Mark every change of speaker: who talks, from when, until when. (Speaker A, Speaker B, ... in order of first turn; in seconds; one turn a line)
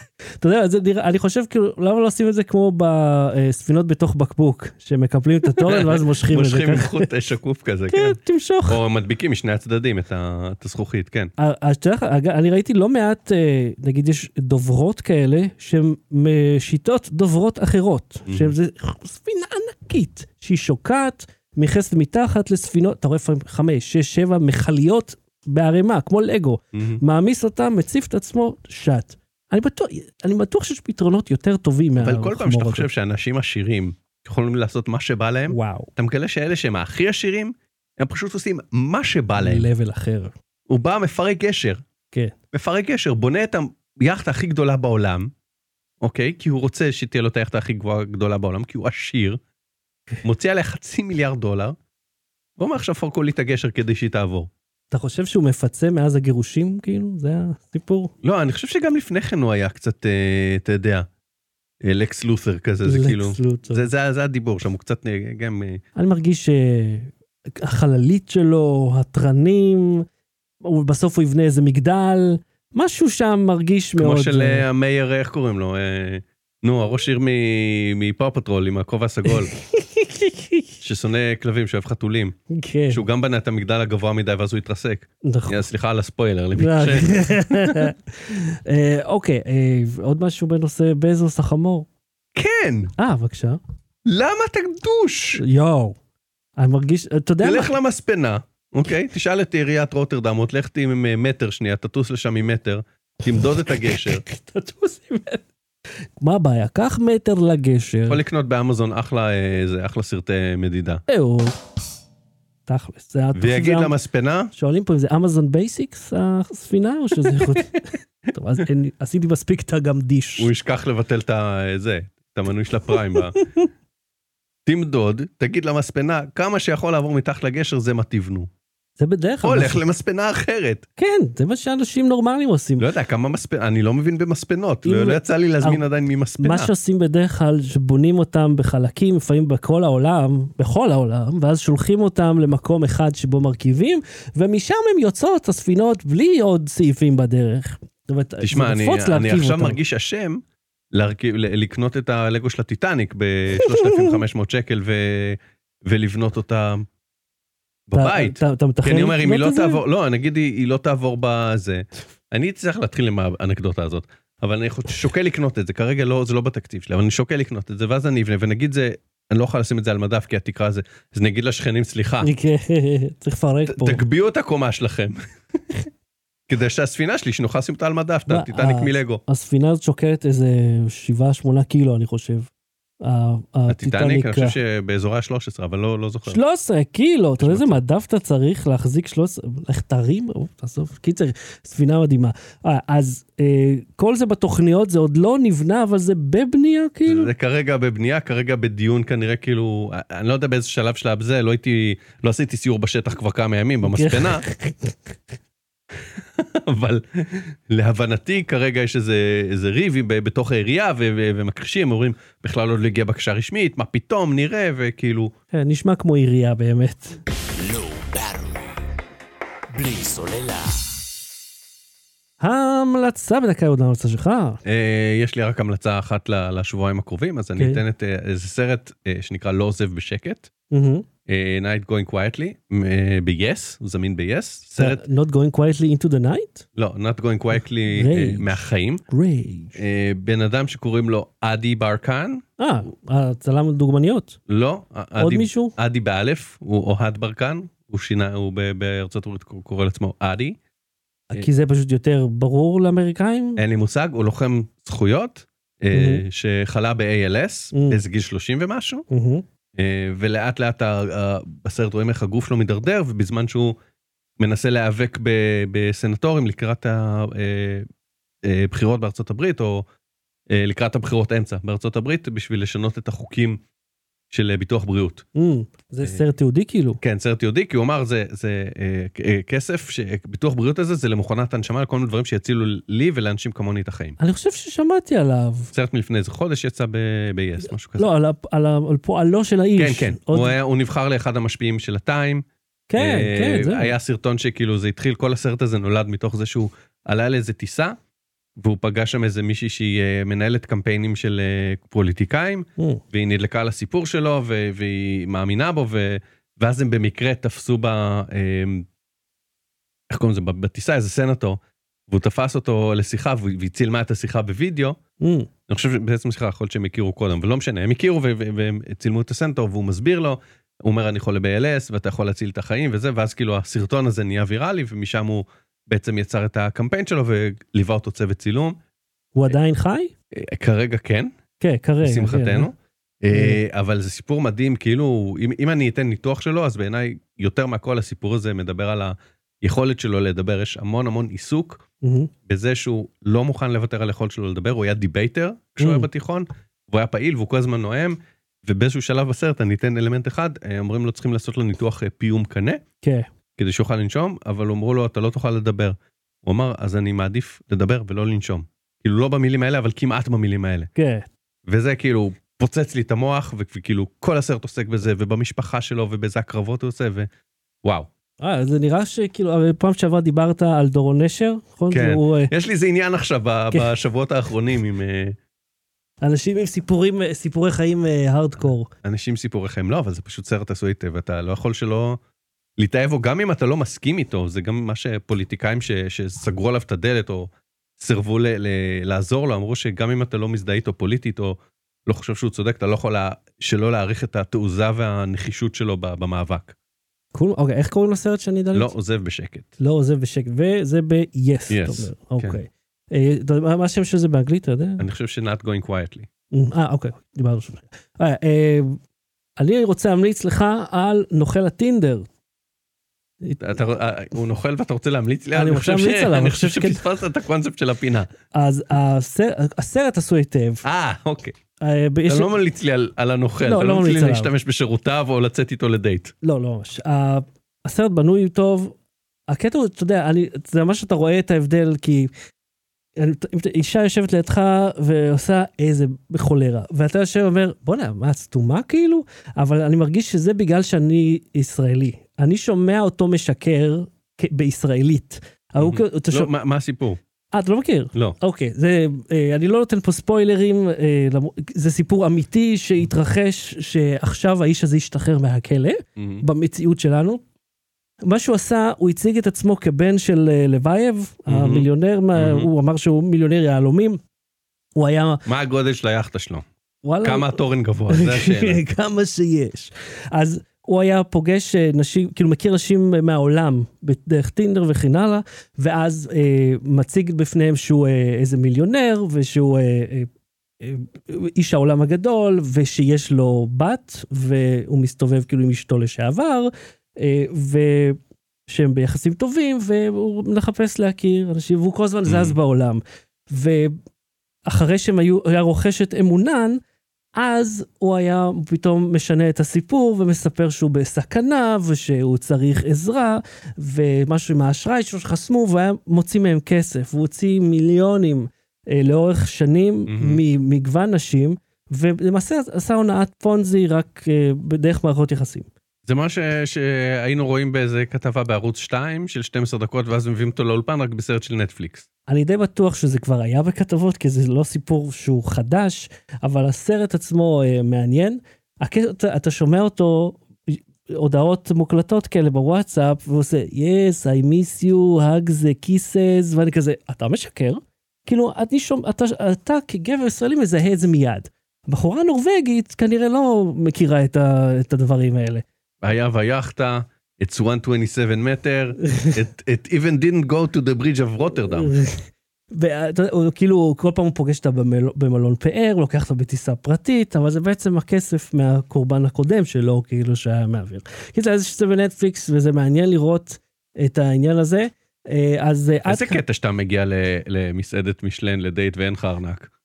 Speaker A: 0.4-7.1
Speaker B: 5.6-11.3
Speaker A: 7.9-8.8
Speaker A: 11.4-32.9
Speaker B: 18.3-18.5
Speaker B: 26.7-27.0
Speaker B: 32.0-39.7
Speaker A: 35.5-35.9
Speaker A: 39.4-40.3
Speaker B: 40.7-41.8
Speaker B: 42.5-45.3
Speaker B: 46.0-49.4
Speaker B: 50.2-51.8
Speaker B: 52.6-54.5
Speaker A: 54.9-58.1
Speaker B: 58.2-61.1
Speaker B: 61.8-65.8
Speaker A: 62.8-63.9
Speaker A: 66.0-70.1
Speaker A: 70.6-74.7
Speaker B: 74.0-79.5
Speaker A: 79.3-80.7
Speaker B: 80.8-82.4
Speaker A: 82.5-83.0
Speaker B: 82.9-87.9
Speaker A: 85.2-85.7
Speaker A: 86.6-91.9
Speaker B: 92.3-92.9
Speaker A: 93.0-93.6
Speaker B: 94.1-95.4
Speaker A: 95.4-96.0
Speaker A: 96.6-97.8
Speaker B: 97.4-104.2
Speaker A: 103.8-105.4
Speaker A: 106.2-108.2
Speaker B: 108.1-111.0
Speaker A: 111.1-111.6
Speaker A: 112.7-113.9
Speaker B: 113.3-114.5
Speaker A: 114.5-120.5
Speaker B: 117.3-117.6
Speaker B: 120.4-123.4
Speaker A: 123.2-123.7
Speaker B: 124.7-128.5
Speaker A: 129.0-129.8
Speaker B: 129.4-130.8
Speaker A: 131.0-132.9
Speaker B: 132.8-136.7
Speaker A: 134.8-135.8
Speaker A: 136.4-149.8
Speaker B: 148.4-156.9
Speaker A: 153.7-154.1
Speaker B: 157.9-172.3
Speaker A: 157.9-159.8
Speaker A: 172.2-174.0
Speaker B: 173.7-175.2
Speaker B: 176.5-179.2
Speaker A: 178.3-182.5
Speaker A: 183.0-184.6
Speaker B: 183.7-186.4
Speaker A: 186.3-197.3
Speaker B: 187.4-187.8
Speaker B: 197.1-204.4
Speaker A: 203.8-205.2
Speaker B: 206.2-215.3
Speaker A: 215.5-217.2
Speaker C: 217.6-218.8
Speaker C: 219.7-221.0
Speaker A: 222.4-224.6
Speaker B: 224.6-230.5
Speaker A: 227.6-227.8
Speaker A: 230.7-231.1
Speaker B: 231.3-235.0
Speaker A: 234.8-236.7
Speaker B: 236.8-239.0
Speaker A: 237.9-239.8
Speaker B: 239.8-242.4
Speaker A: 242.6-244.4
Speaker B: 244.5-250.6
Speaker A: 245.2-245.7
Speaker A: 251.3-253.6
Speaker B: 253.6-259.1
Speaker A: 255.9-256.2
Speaker A: 257.7-258.0
Speaker A: 259.1-259.4
Speaker B: 259.8-263.8
Speaker B: 264.4-267.9
Speaker B: 268.4-269.9
Speaker B: 270.5-273.6
Speaker B: 274.3-275.2
Speaker A: 275.4-277.0
Speaker B: 277.0-284.2
Speaker A: 284.2-285.7
Speaker B: 285.7-288.1
Speaker A: 288.0-290.6
Speaker B: 289.8-298.0
Speaker A: 292.9-293.9
Speaker B: 298.6-308.9
Speaker B: 310.1-315.0
Speaker A: 315.2-315.5
Speaker B: 315.7-328.8
Speaker A: 329.4-330.1
Speaker B: 330.3-331.3
Speaker A: 331.6-332.7
Speaker B: 332.0-341.8
Speaker A: 333.3-333.6
Speaker A: 342.0-342.3
Speaker B: 342.5-352.8
Speaker A: 345.8-346.1
Speaker A: 353.0-353.3
Speaker B: 353.6-360.9
Speaker A: 360.9-361.3
Speaker B: 361.7-367.3
Speaker B: 367.8-368.1
Speaker A: 368.4-372.5
Speaker B: 371.9-375.4
Speaker A: 376.2-378.9
Speaker B: 379.0-382.2
Speaker B: 382.8-396.8
Speaker A: 397.3-398.9
Speaker B: 398.7-399.7
Speaker A: 399.8-405.0
Speaker B: 401.7-402.6
Speaker B: 405.0-406.3
Speaker A: 406.5-409.0
Speaker A: 409.6-412.3
Speaker B: 413.6-418.3
Speaker A: 415.5-417.0
Speaker A: 418.5-420.8
Speaker B: 420.8-421.6
Speaker A: 421.8-422.6
Speaker B: 422.3-426.3
Speaker A: 423.6-424.5
Speaker A: 426.4-429.0
Speaker A: 429.5-432.3
Speaker A: 433.2-446.5
Speaker B: 445.8-447.2
Speaker A: 447.5-457.4
Speaker B: 456.2-456.4
Speaker A: 458.2-464.2
Speaker B: 461.5-462.7
Speaker A: 464.9-465.4
Speaker B: 465.5-466.6
Speaker A: 467.0-480.3
Speaker B: 467.2-468.8
Speaker A: 480.8-494.0
Speaker B: 492.3-492.6
Speaker A: 494.7-496.8
Speaker A: 497.4-515.7
Speaker B: 510.1-510.4
Speaker B: 516.1-522.1
Speaker A: 522.3-545.6
Speaker B: 546.0-551.9
Speaker A: 551.7-566.4
Speaker B: 566.1-569.7